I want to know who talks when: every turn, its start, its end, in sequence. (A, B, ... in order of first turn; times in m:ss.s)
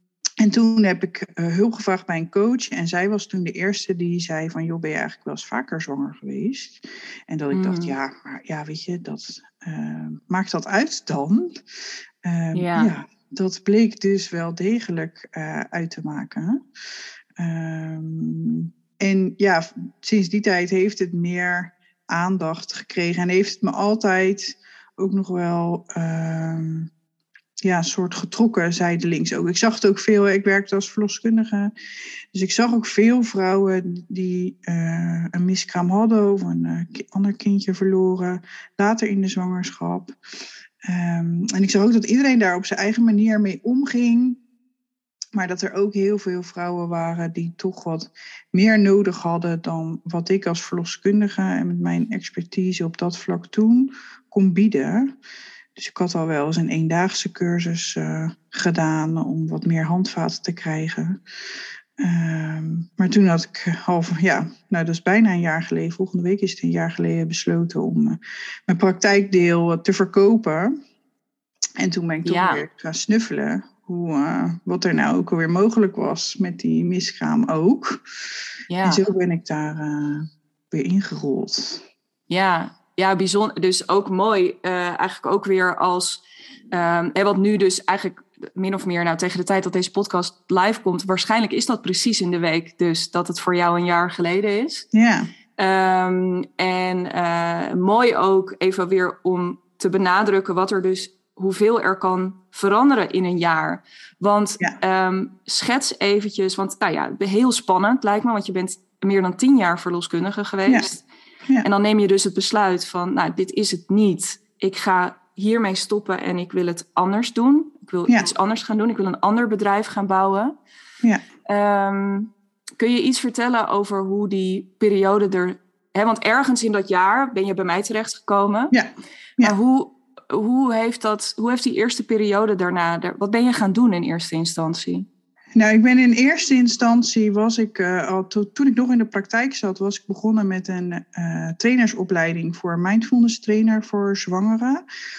0:00.4-0:11.6 A
0:07.5-0:07.9 B
0:12.2-0:16.6 A
0:12.5-0:12.9 B
0:17.4-0:26.9 A
0:27.6-0:31.7 A
0:32.3-0:40.1 A
0:40.8-0:44.4 A
0:45.3-0:55.1 A
0:55.8-1:01.2 A
1:02.0-1:10.7 A
1:11.8-1:18.0 A
1:12.2-1:12.6 B
1:18.7-1:19.0 B
1:18.8-1:21.8 A
1:22.3-1:34.8 B
1:34.9-1:35.3 A
1:35.6-1:51.0 B
1:51.6-2:00.6 B
2:01.4-2:08.7 B
2:08.7-2:09.5 A
2:09.4-2:15.1 B
2:15.6-2:24.8 A